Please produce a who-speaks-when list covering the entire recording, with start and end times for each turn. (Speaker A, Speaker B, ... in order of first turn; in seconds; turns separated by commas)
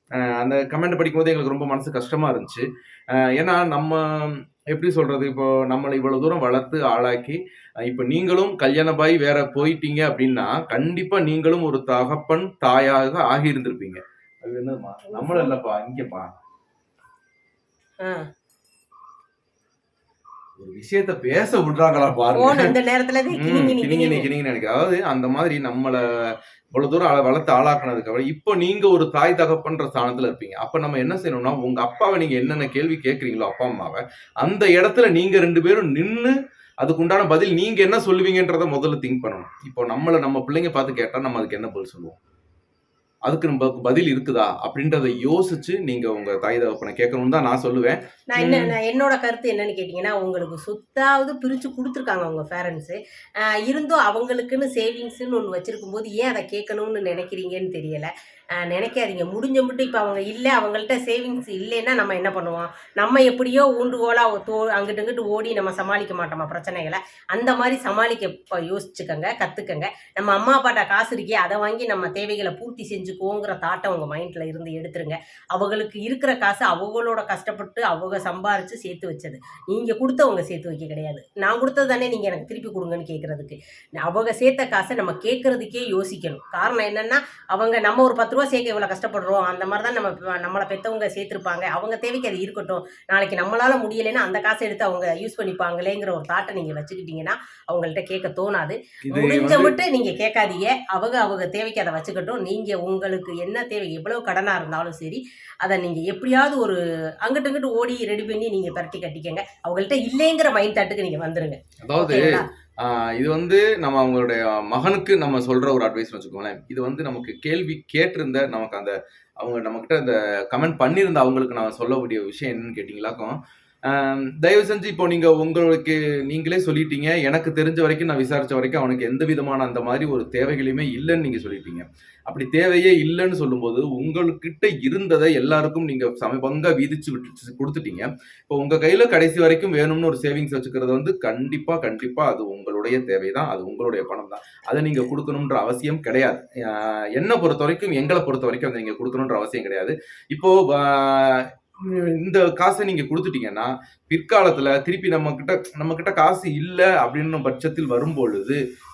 Speaker A: 0.2-16.3, Speaker B: 15.1-15.5, Speaker B: 18.0-18.3, Speaker A: 20.6-22.7, Speaker B: 22.3-24.3, Speaker A: 23.3-42.2, Speaker A: 43.3-48.7, Speaker B: 48.3-53.0, Speaker B: 53.5-112.5, Speaker A: 99.1-99.8, Speaker A: 111.8-123.3, Speaker A: 123.9-158.6